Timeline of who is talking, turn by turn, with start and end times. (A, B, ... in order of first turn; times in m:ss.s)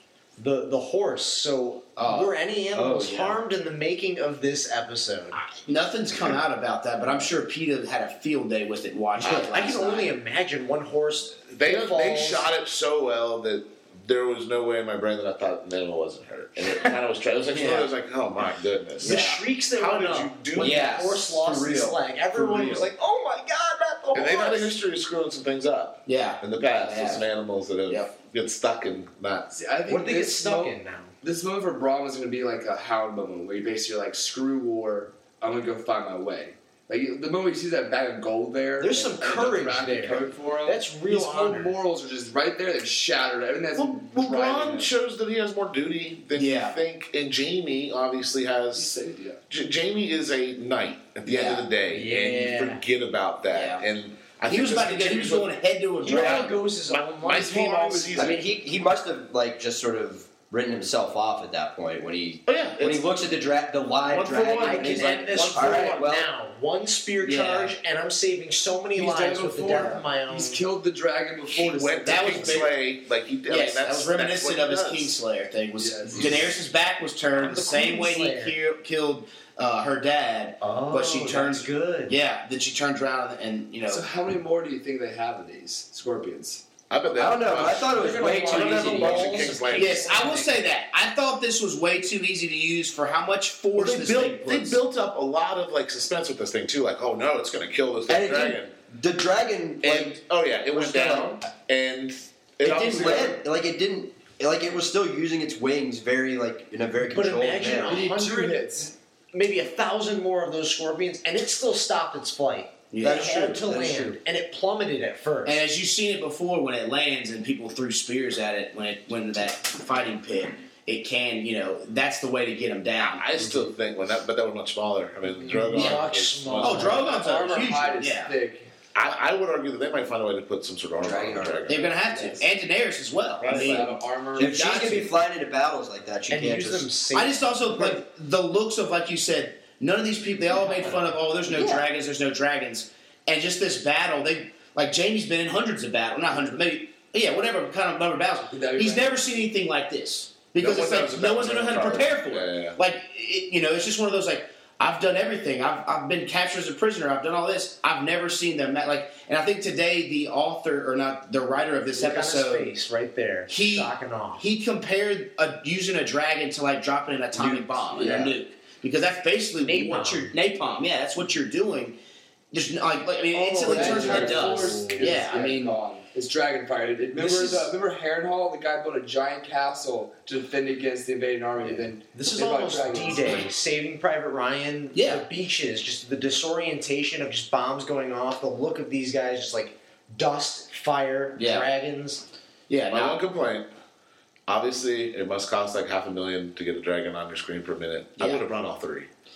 0:00.4-0:05.4 A
0:02.0-0:02.3 B
0:02.7-0:03.4 C
0:05.3-0:10.1 B
0:09.2-0:12.5 A
0:11.5-0:19.2 D
0:19.0-0:19.4 B
0:19.0-0:24.7 A
0:19.7-0:21.0 D
0:20.6-0:21.2 B
0:20.6-0:22.9 C
0:24.1-0:29.5 D
0:26.1-0:27.3 B
0:29.5-0:44.9 E
0:29.9-0:31.1 A
0:38.8-0:41.8 A
0:43.8-0:48.9 D
0:46.3-0:46.8 B
0:48.7-0:49.4 E
0:49.5-0:55.5 D
0:51.2-0:51.7 B
0:51.9-0:52.8 A
0:53.5-0:53.9 B
0:54.5-0:56.6 B
0:56.0-0:58.2 A
0:56.0-0:58.4 D
0:57.3-0:58.4 E
0:58.2-1:06.3 C
1:02.5-1:03.1 D
1:04.1-1:06.1 D
1:04.6-1:10.6 A
1:07.2-1:07.8 B
1:09.0-1:12.7 E
1:11.5-1:15.2 D
1:12.1-1:12.7 B
1:13.5-1:24.0 B
1:15.8-1:16.5 E
1:17.3-1:18.6 A
1:20.6-1:22.1 A
1:23.9-1:26.6 E
1:26.9-1:30.2 D
1:27.2-1:29.6 C
1:27.9-1:30.5 A
1:29.7-1:34.8 B
1:33.8-1:38.7 D
1:38.1-1:40.2 C
1:39.8-1:43.3 D
1:40.7-1:41.3 C
1:42.6-1:48.1 C
1:42.6-1:43.2 B
1:47.0-1:48.8 A
1:47.9-1:48.9 E
1:49.3-1:55.6 A
1:52.9-1:53.6 B
1:53.0-1:54.2 C
1:55.4-2:03.2 B
2:03.0-2:07.1 D
2:05.4-2:06.0 E
2:05.5-2:07.2 A
2:06.6-2:08.3 B
2:06.9-2:08.7 E
2:09.0-2:11.9 D
2:11.0-2:11.7 C
2:11.7-2:15.2 B
2:11.7-2:12.5 E
2:13.4-2:13.9 D
2:13.4-2:14.8 E
2:14.4-2:16.9 C
2:16.3-2:17.6 A
2:17.1-2:42.7 B
2:21.5-2:21.8 C
2:28.5-2:29.2 E
2:30.6-2:32.8 D
2:42.0-2:44.5 A
2:43.5-2:52.0 B
2:47.4-2:48.3 E
2:48.0-2:48.3 C
2:49.6-2:50.3 A
2:52.5-2:55.8 B
2:53.4-3:03.5 E
2:53.7-2:55.2 A
2:57.2-2:57.7 A
3:02.1-3:12.2 A
3:04.9-3:05.2 B
3:11.4-3:11.7 B
3:12.7-3:13.2 B
3:12.9-3:13.7 D
3:14.5-3:19.1 D
3:18.2-3:18.4 B